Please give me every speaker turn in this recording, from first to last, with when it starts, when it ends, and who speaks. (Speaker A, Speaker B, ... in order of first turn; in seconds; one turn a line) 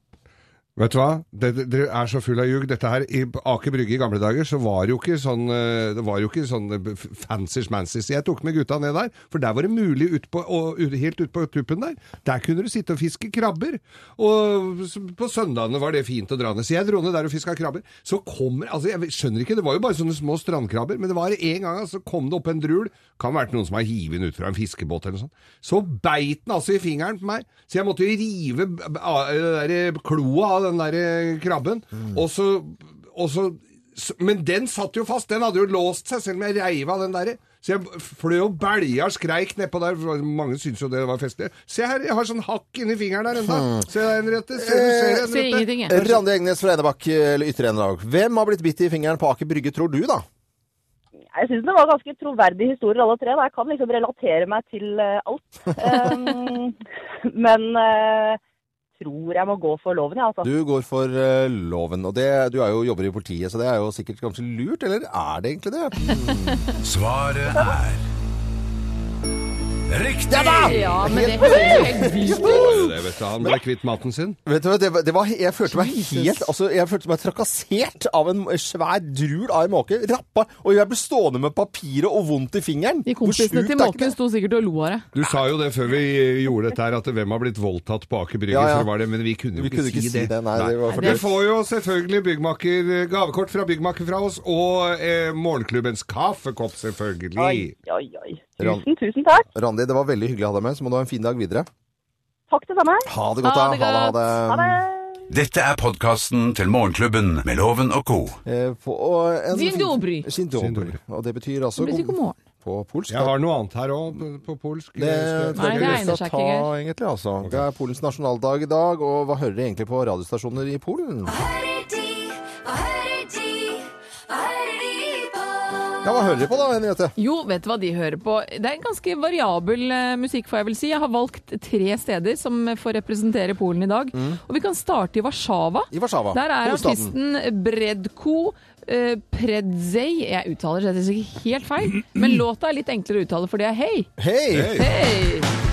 Speaker A: 0.8-46.2
Speaker B: 43.4-43.8
Speaker B: 44.5-45.3
Speaker C: 45.2-46.0
Speaker B: 45.9-50.2
Speaker D: 51.3-58.4
Speaker D: 59.0-60.5
Speaker B: 60.4-66.7
Speaker E: 66.8-68.0
Speaker E: 69.9-71.0
Speaker B: 70.3-73.0
Speaker C: 70.3-72.7
Speaker A: 72.3-74.4
Speaker B: 74.5-84.2
Speaker C: 75.7-76.5
Speaker C: 83.0-85.0
Speaker A: 85.1-97.7
Speaker B: 88.5-88.9
Speaker B: 89.5-91.3
Speaker D: 97.4-99.5
Speaker B: 98.6-98.8
Speaker B: 99.5-101.7
Speaker D: 102.5-103.1
Speaker B: 103.0-104.8
Speaker C: 103.4-104.3
Speaker D: 104.5-105.2
Speaker E: 105.3-108.4
Speaker B: 108.5-113.3
Speaker C: 109.5-110.3
Speaker A: 110.5-111.0
Speaker C: 111.8-112.4
Speaker A: 113.1-116.1
Speaker B: 115.0-121.3
Speaker C: 115.5-116.7
Speaker F: 121.2-126.2
Speaker B: 126.0-127.1
Speaker C: 127.2-144.1
Speaker B: 134.1-134.4
Speaker B: 135.9-137.1
Speaker B: 144.2-144.9
Speaker A: 144.5-144.9
Speaker C: 144.8-145.5